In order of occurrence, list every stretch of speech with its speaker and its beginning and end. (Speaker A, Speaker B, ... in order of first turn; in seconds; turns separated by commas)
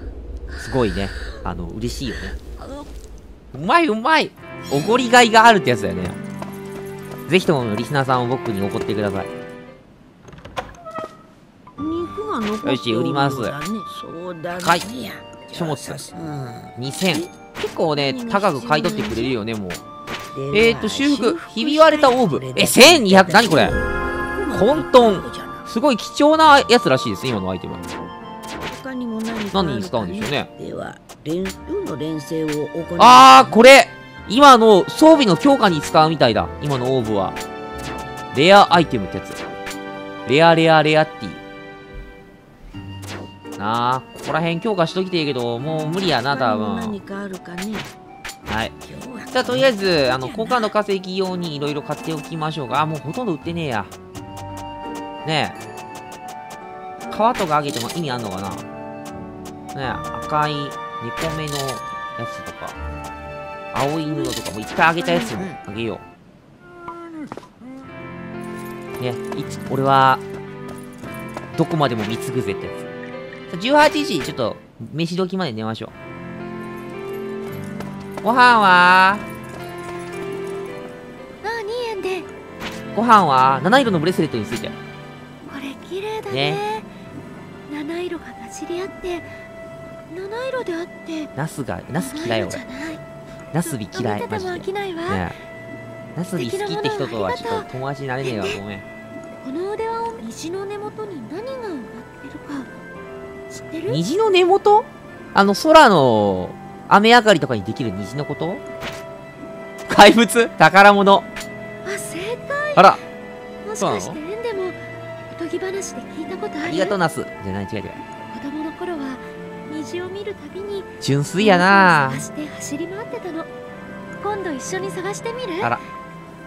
Speaker A: 0.6-2.4, Speaker A: 3.5-6.2, Speaker A: 7.3-9.3, Speaker B: 11.8-17.3, Speaker A: 12.6-13.6, Speaker A: 14.5-14.9, Speaker A: 15.5-16.1, Speaker A: 16.8-19.8, Speaker B: 17.9-19.3, Speaker B: 20.3-25.7, Speaker A: 20.5-23.8, Speaker A: 24.5-27.8, Speaker B: 28.7-33.6, Speaker A: 29.5-30.5, Speaker A: 33.0-37.4, Speaker A: 38.3-39.4, Speaker A: 40.3-41.4, Speaker A: 43.6-47.0, Speaker B: 46.3-47.9, Speaker A: 48.5-48.8, Speaker B: 48.8-50.8, Speaker A: 49.3-53.9, Speaker A: 55.2-55.6, Speaker A: 57.1-58.6, Speaker A: 59.7-62.8, Speaker A: 63.7-66.0, Speaker A: 69.0-70.2, Speaker A: 71.5-72.8, Speaker A: 73.5-75.9, Speaker A: 78.2-79.3, Speaker C: 81.4-82.3, Speaker A: 82.9-84.8, Speaker C: 85.5-86.9, Speaker A: 86.3-86.6, Speaker C: 87.7-89.3, Speaker C: 90.1-91.3, Speaker A: 91.4-92.6, Speaker C: 92.0-93.0, Speaker A: 93.5-95.3, Speaker C: 93.7-95.3, Speaker A: 96.2-98.8, Speaker C: 96.4-97.7, Speaker C: 98.2-98.6, Speaker C: 99.4-102.7, Speaker C: 103.5-104.0, Speaker A: 103.9-108.6, Speaker A: 109.9-111.3, Speaker C: 111.8-113.0, Speaker C: 113.6-114.8, Speaker A: 113.8-114.2, Speaker C: 115.3-117.0, Speaker A: 116.6-118.0, Speaker C: 118.3-123.5, Speaker A: 121.0-122.2, Speaker C: 124.2-125.8